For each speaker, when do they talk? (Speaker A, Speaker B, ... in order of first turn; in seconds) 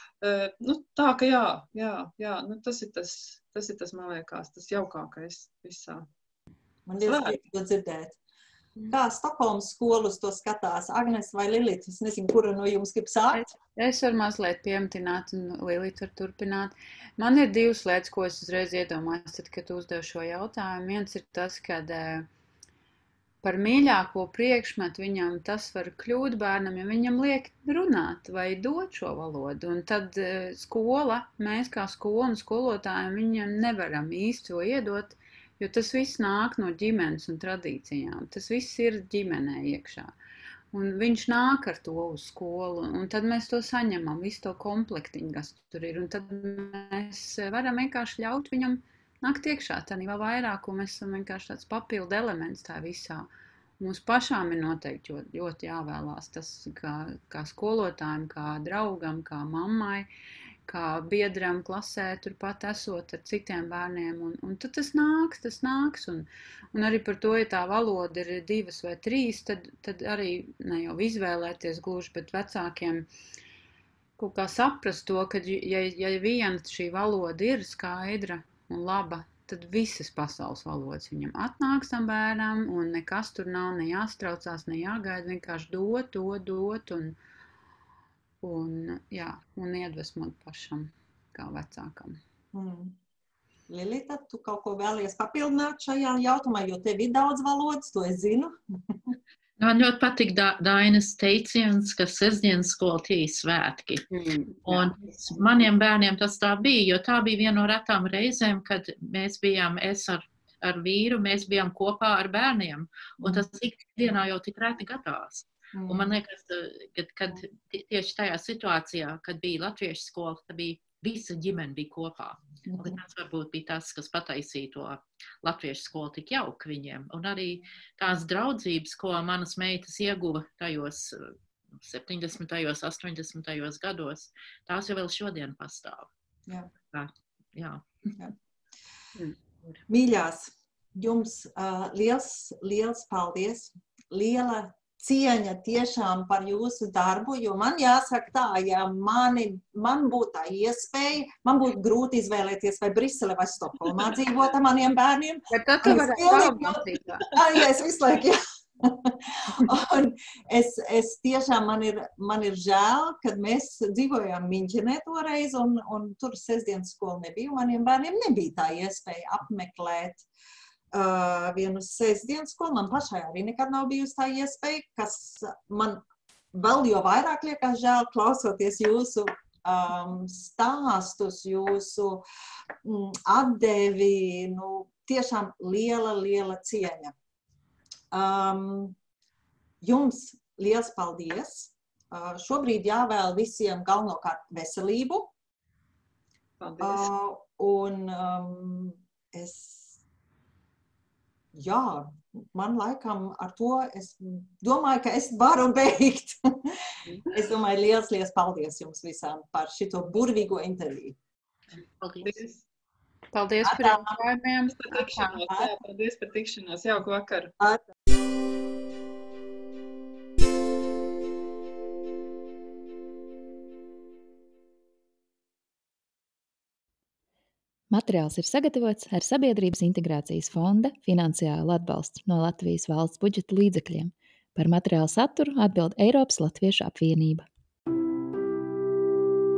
Speaker A: 0.2-6.0, 7.0-7.4, 196.6-197.1, 212.2-212.6, 214.7-217.5
Speaker B: 6.9-8.2, 8.9-13.5, 92.5-93.0, 93.7-99.2, 115.7-116.1, 122.7-123.0, 139.9-170.2, 170.9-176.0, 176.5-182.2, 182.8-187.1, 188.1-188.9, 189.8-195.3, 196.8-200.0, 201.5-211.2, 213.6-214.2, 217.6-217.9
Speaker C: 13.3-22.3, 23.4-40.1, 40.7-53.3, 53.8-60.1, 60.6-73.1, 74.2-87.2, 88.4-92.2, 104.1-104.9, 155.5-157.2, 213.3-215.4
Speaker D: 99.6-104.0, 104.6-136.1, 136.9-137.8, 211.7-212.3
Speaker E: 227.9-237.4